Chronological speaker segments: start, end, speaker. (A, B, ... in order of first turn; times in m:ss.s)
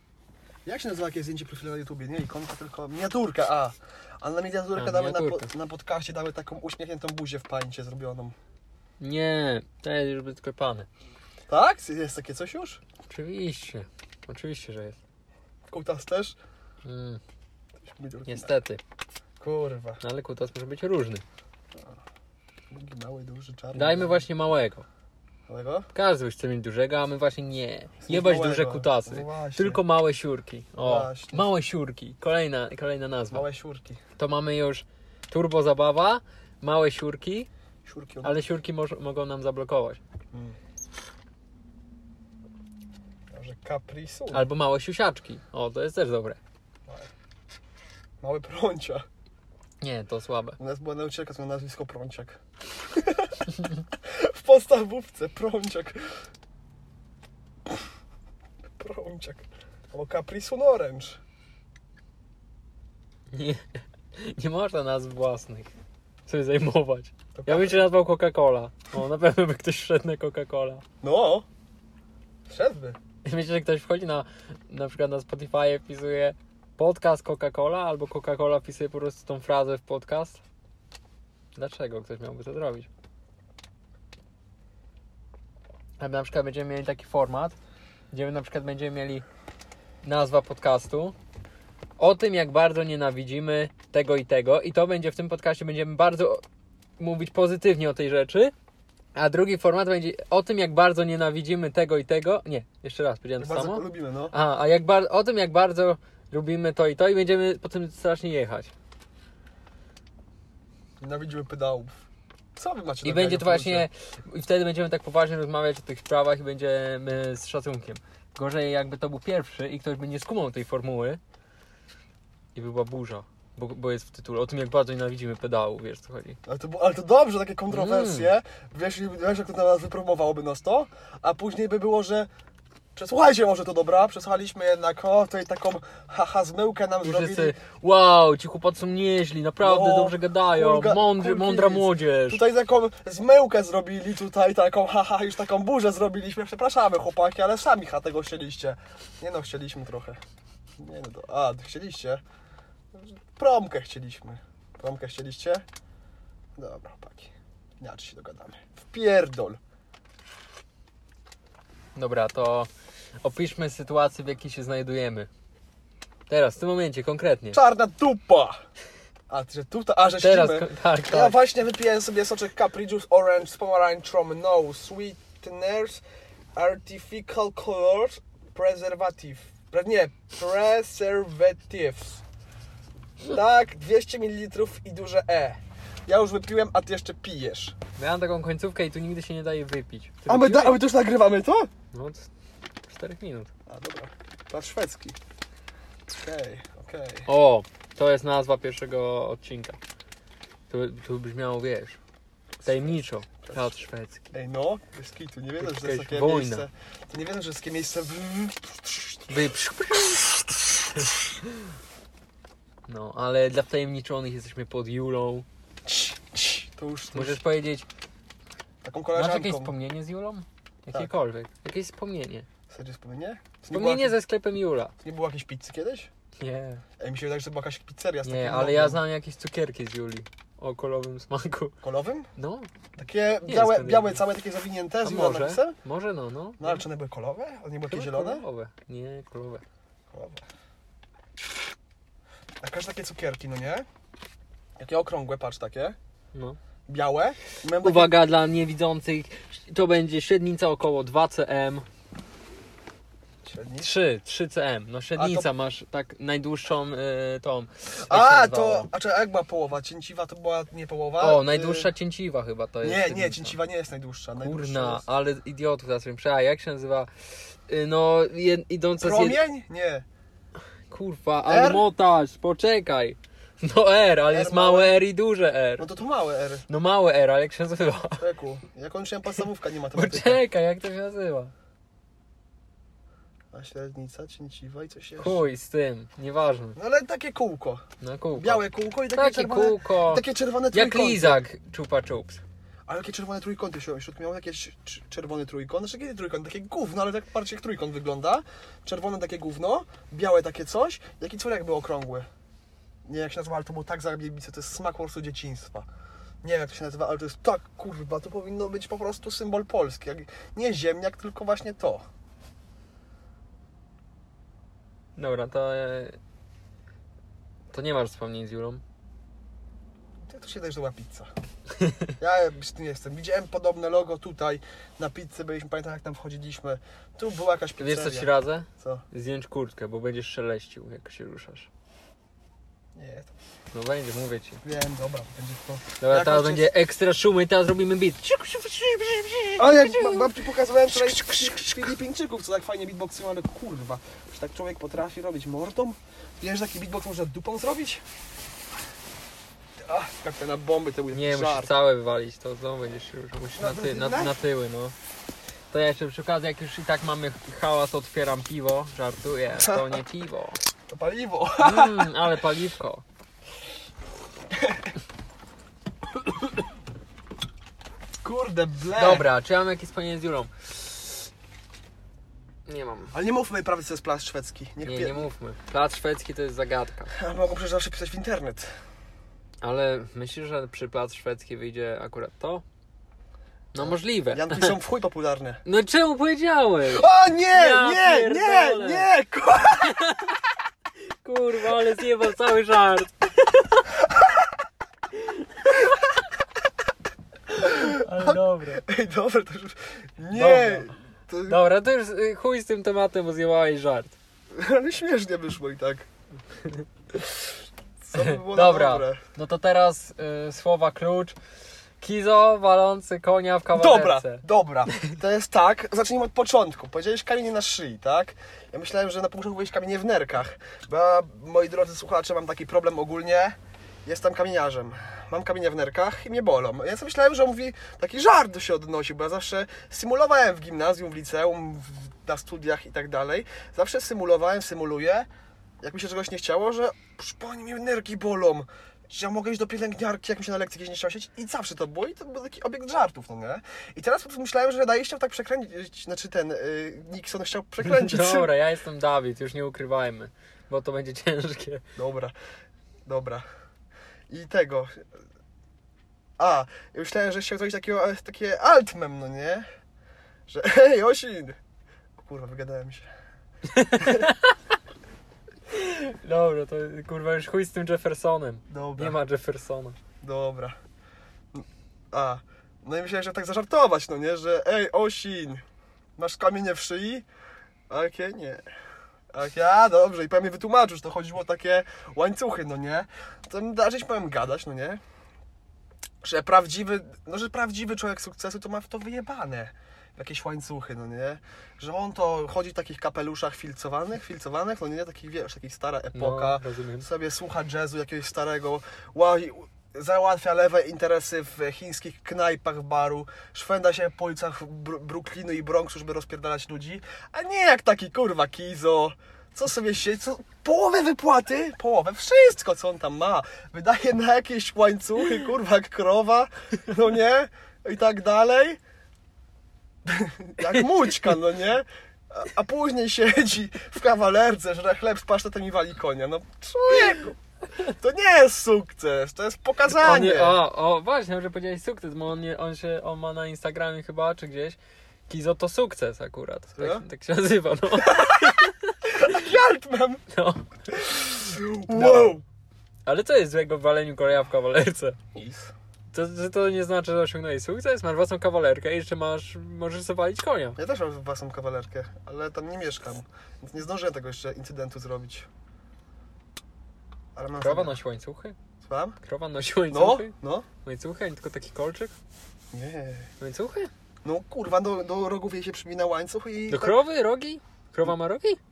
0:00.6-0:08.3 A
0:04.7-0:05.5 B
0:09.0-0:10.9 B
0:11.5-0:12.8 A
0:13.1-0:15.0 B
0:15.7-0:16.4 A
0:16.8-0:17.2 B
0:17.8-0:18.5 A
0:18.3-0:18.8 B
0:19.4-0:20.0 A
0:20.0-0:21.2 B
0:22.7-0:24.2 A
0:23.7-0:24.8 B
0:25.5-0:25.9 A
0:25.9-0:33.4 B
0:28.0-0:29.8 A
0:30.8-0:31.5 A
0:33.3-0:34.0 A
0:34.2-0:37.5 B
0:37.8-0:38.4 A
0:38.2-0:40.0 B
0:43.3-0:44.4 A
0:44.3-0:46.4 B
0:48.2-0:49.0 A
0:49.8-0:50.6 B
0:50.6-0:52.4 A
0:52.9-0:56.0 A
0:58.8-1:01.2 A
1:03.3-1:03.6 B
1:04.1-1:05.7 B
1:06.2-1:10.8 B
1:07.3-1:07.8 A
1:11.0-1:11.4 A
1:12.5-1:13.0 A
1:13.2-1:20.4 B
1:21.5-1:22.9 B
1:26.0-1:27.6 B
1:28.1-1:29.2 B
1:30.0-1:31.2 B
1:32.0-1:36.4 B
1:37.0-1:38.5 B
1:39.1-1:48.7 B
1:43.4-1:44.3 A
1:51.0-1:52.0 A
1:52.6-1:53.8 A
1:53.0-2:01.2 B
2:02.5-2:06.4 B
2:06.4-2:12.3 A
2:07.7-2:08.3 B
2:13.0-2:17.6 A
2:17.0-2:22.4 B
2:19.6-2:30.2 A
2:30.8-2:32.2 A
2:32.9-2:35.6 A
2:36.6-2:39.6 A
2:41.9-2:42.7 B
2:43.2-2:45.3 B
2:46.3-2:47.6 B
2:47.5-2:48.6 A
2:49.3-2:56.0 A
2:50.2-2:51.3 B
2:56.5-3:02.2 A
3:03.2-3:07.8 A
3:08.0-3:10.8 B
3:10.3-3:11.7 A
3:11.9-3:12.3 B
3:12.9-3:13.5 B
3:13.7-3:15.2 A
3:16.2-3:17.3 A
3:17.3-3:19.8 B
3:20.7-3:22.0 B
3:22.6-3:23.6 A
3:22.6-3:24.3 B
3:24.3-3:29.3 A
3:25.6-3:26.7 B
3:29.3-3:30.3 B
3:32.9-3:35.4 B
3:35.8-3:37.4 A
3:37.1-3:37.8 B
3:38.8-3:39.7 A
3:39.1-3:42.5 B
3:42.7-3:44.2 A
3:43.7-3:44.9 B
3:45.0-3:46.1 A
3:46.4-3:46.8 B
3:47.0-3:49.0 A
3:48.2-3:51.7 B
3:51.8-3:52.3 A
3:52.4-3:52.7 B
3:53.0-3:55.8 A
3:53.4-3:54.2 B
3:55.0-3:56.8 B
3:56.6-3:58.4 A
3:57.9-3:59.6 B
4:00.1-4:00.4 A
4:02.6-4:03.8 A
4:04.8-4:06.0 A
4:06.9-4:08.1 A
4:07.8-4:11.8 B
4:13.4-4:13.9 A
4:13.8-4:18.9 B
4:15.2-4:15.5 A
4:18.0-4:21.9 A
4:21.2-4:23.6 B
4:22.8-4:25.0 A
4:24.4-4:27.1 B
4:27.7-4:29.4 B
4:29.0-4:30.0 A
4:30.9-4:35.9 B
4:31.5-4:31.8 A
4:34.3-4:35.0 A
4:35.8-4:36.6 A
4:36.7-4:38.2 B
4:38.2-4:40.4 A
4:39.9-4:41.5 B
4:43.5-4:45.4 A
4:45.2-4:46.8 B
4:46.8-4:51.4 A
4:48.0-4:52.4 B
4:52.9-5:02.3 A
5:03.0-5:05.8 A
5:06.4-5:12.0 A
5:15.2-5:16.2 B
5:17.7-5:18.8 B
5:20.3-5:21.3 A
5:22.2-5:29.0 A
5:27.8-5:31.7 B
5:33.0-5:33.3 A
5:33.7-5:34.6 B
5:34.6-5:36.7 A
5:36.0-5:40.3 B
5:39.6-5:48.0 A
5:49.9-5:51.7 A
5:51.1-5:54.9 B
5:53.5-5:54.3 A
5:55.7-6:00.6 B
5:59.6-5:59.9 A
6:00.9-6:02.1 A
6:01.6-6:03.0 B
6:04.5-6:04.9 A
6:08.2-6:09.3 A
6:08.9-6:11.3 B
6:12.6-6:13.1 B
6:13.1-6:15.2 A
6:14.8-6:17.1 B
6:17.1-6:18.7 A
6:19.6-6:22.6 B
6:23.7-6:24.7 B
6:23.8-6:25.6 A
6:25.6-6:29.1 B
6:26.8-6:30.1 A
6:29.8-6:30.4 B
6:31.1-6:33.9 B
6:35.1-6:35.9 B
6:37.6-6:38.8 B
6:37.6-6:41.6 A
6:40.3-6:40.9 B
6:41.4-6:44.2 B
6:44.5-6:46.1 A
6:47.2-6:47.5 A
6:48.0-6:49.2 A
6:48.1-6:51.4 B
6:52.0-6:54.4 B
6:53.7-7:15.3 A
7:15.8-7:28.5 A
7:27.8-7:31.8 B
7:32.0-7:32.3 A
7:33.1-7:33.4 A
7:34.3-7:35.0 A
7:36.4-7:39.6 A
7:40.5-7:41.6 A
7:42.2-7:43.1 A
7:43.7-7:44.6 B
7:43.9-7:44.3 A
7:45.7-7:50.0 B
7:48.7-7:49.2 A
7:50.2-7:50.8 A
7:51.5-7:55.6 A
7:56.2-7:57.2 A
7:57.9-7:58.6 A
7:59.3-8:05.0 A
8:06.2-8:38.8 A
8:16.1-8:17.0 B
8:40.0-8:50.6 A
8:40.7-8:41.3 B
8:49.9-8:59.3 B
8:56.8-8:57.0 A
8:58.0-9:00.2 A
9:00.3-9:02.4 B
9:00.9-9:02.4 A
9:03.0-9:05.2 B
9:05.3-9:05.7 A
9:06.1-9:10.8 B
9:10.8-9:15.5 A
9:17.4-9:18.0 A
9:17.6-9:18.6 B
9:18.8-9:19.2 A
9:19.2-9:20.3 B
9:19.9-9:20.6 A
9:20.8-9:22.1 B
9:22.7-9:23.3 A
9:23.4-9:23.9 B
9:24.2-9:27.0 A
9:26.7-9:28.6 B